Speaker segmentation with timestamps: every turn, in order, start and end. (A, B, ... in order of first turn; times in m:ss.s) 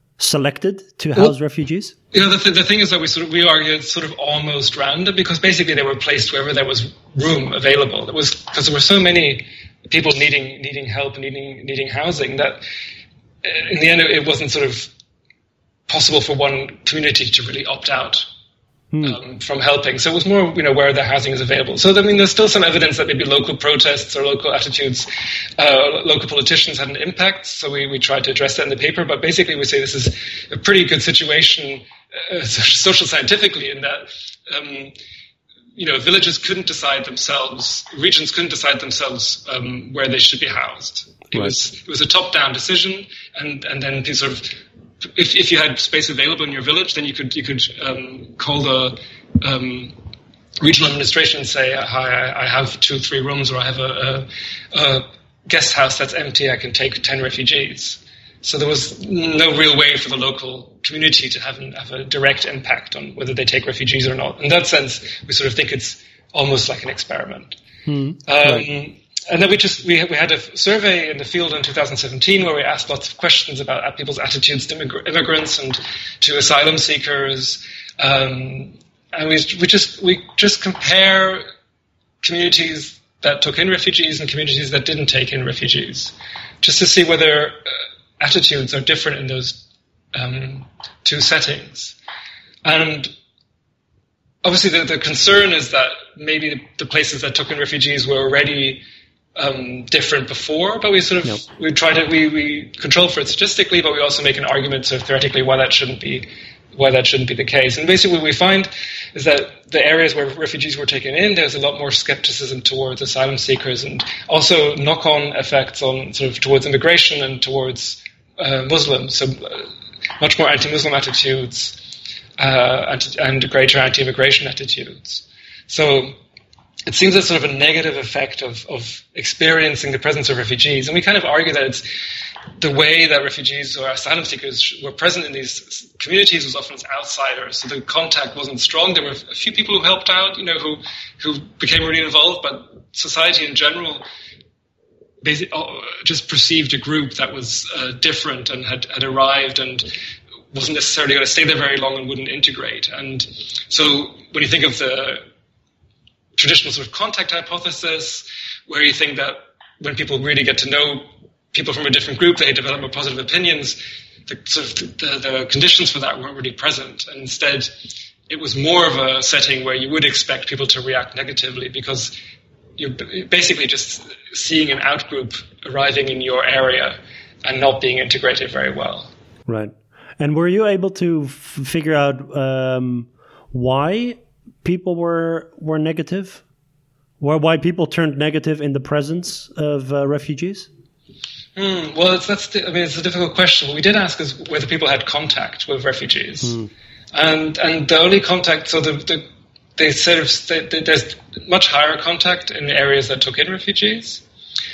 0:00.2-0:01.9 A
0:02.1-0:12.6 B
0:13.4-0:14.9 B
0:15.9-0:18.2 B
0:18.9-0:19.2 A
0:19.0-0:34.9 B
0:35.8-0:49.9 B
0:41.3-0:41.6 A
0:50.6-1:07.6 B
1:07.8-1:08.6 A
1:08.3-1:21.4 B
1:22.2-1:32.0 B
1:32.6-1:33.1 B
1:34.4-1:38.8 B
1:39.4-1:59.7 B
2:00.2-2:01.8 B
2:02.4-2:06.2 B
2:06.9-2:11.8 B
2:12.6-2:24.0 B
2:25.2-2:29.9 B
2:30.5-2:35.2 B
2:36.4-2:47.7 B
2:48.3-2:52.1 B
2:52.8-2:59.1 B
2:59.5-3:06.4 A
3:07.2-3:10.7 A
3:11.6-3:19.2 B
3:19.8-3:24.2 B